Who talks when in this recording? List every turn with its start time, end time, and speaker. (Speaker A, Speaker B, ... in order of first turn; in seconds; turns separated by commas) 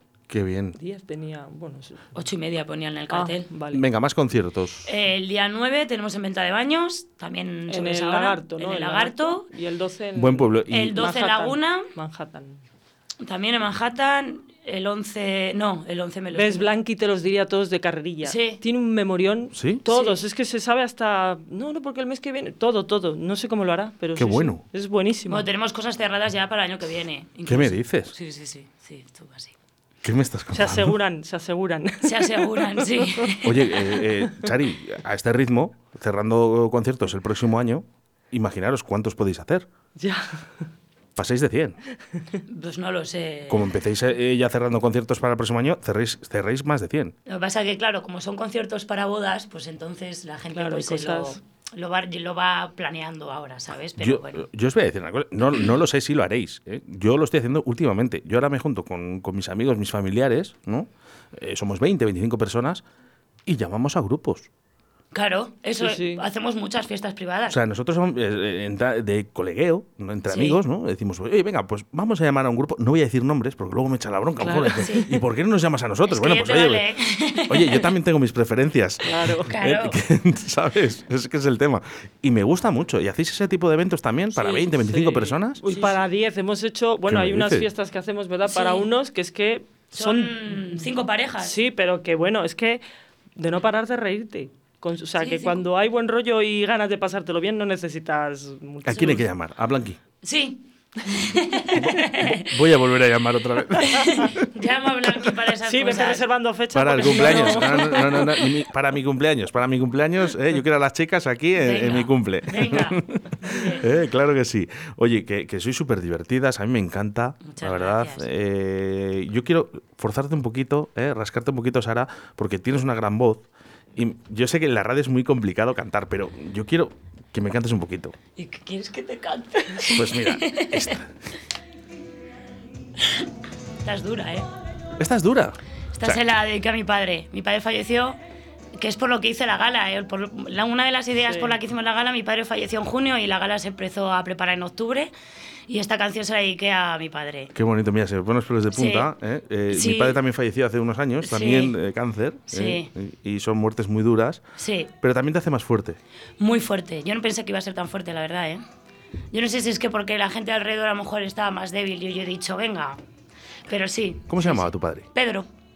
Speaker A: 0.3-0.8, Speaker B: 0.8-2.0, Speaker C: 2.1-3.5, Speaker B: 3.1-3.8, Speaker A: 3.7-4.9, Speaker C: 4.8-9.5, Speaker B: 7.7-12.6, Speaker A: 10.1-11.1, Speaker C: 10.7-11.9, Speaker C: 13.2-16.7, Speaker B: 16.3-25.5, Speaker C: 18.2-18.6, Speaker A: 19.5-19.8, Speaker C: 19.9-20.2, Speaker A: 24.1-24.6, Speaker C: 25.3-29.6, Speaker A: 27.5-28.1, Speaker A: 30.0-30.9, Speaker B: 30.5-33.4, Speaker C: 32.0-33.7, Speaker A: 33.4-39.7, Speaker B: 40.0-40.4, Speaker A: 41.1-41.8, Speaker C: 42.5-43.7, Speaker A: 43.5-47.1, Speaker C: 47.2-54.5, Speaker B: 50.5-51.4, Speaker A: 54.0-62.8, Speaker A: 63.5-64.5, Speaker C: 65.1-67.6, Speaker B: 65.8-66.2, Speaker A: 67.5-76.9, Speaker C: 70.3-70.6, Speaker B: 74.4-75.0, Speaker C: 74.8-75.1, Speaker C: 76.1-77.8, Speaker A: 77.5-85.6, Speaker B: 79.0-79.5, Speaker C: 79.4-80.0, Speaker B: 84.3-90.6, Speaker C: 85.7-86.0, Speaker A: 87.0-87.7, Speaker C: 88.5-88.9, Speaker C: 89.9-91.5, Speaker B: 91.4-92.8, Speaker B: 93.3-99.2, Speaker C: 95.2-95.6, Speaker A: 98.8-100.0, Speaker C: 100.2-102.5, Speaker A: 101.7-104.5, Speaker C: 103.8-106.3, Speaker B: 105.7-108.5, Speaker A: 106.7-128.1, Speaker C: 107.0-107.7, Speaker C: 111.6-113.9, Speaker C: 117.4-118.3, Speaker C: 128.3-131.0, Speaker A: 129.9-131.1, Speaker C: 133.8-134.5, Speaker A: 135.0-136.2, Speaker C: 135.9-138.2, Speaker C: 138.8-145.1, Speaker B: 141.3-141.6, Speaker C: 145.7-147.5, Speaker A: 147.5-154.4, Speaker C: 148.7-149.1, Speaker C: 149.7-150.2, Speaker C: 151.2-151.7, Speaker C: 152.5-152.9, Speaker C: 154.6-154.9, Speaker A: 155.0-156.0, Speaker C: 156.4-158.6, Speaker C: 159.3-163.0, Speaker C: 163.7-165.5, Speaker A: 164.3-165.1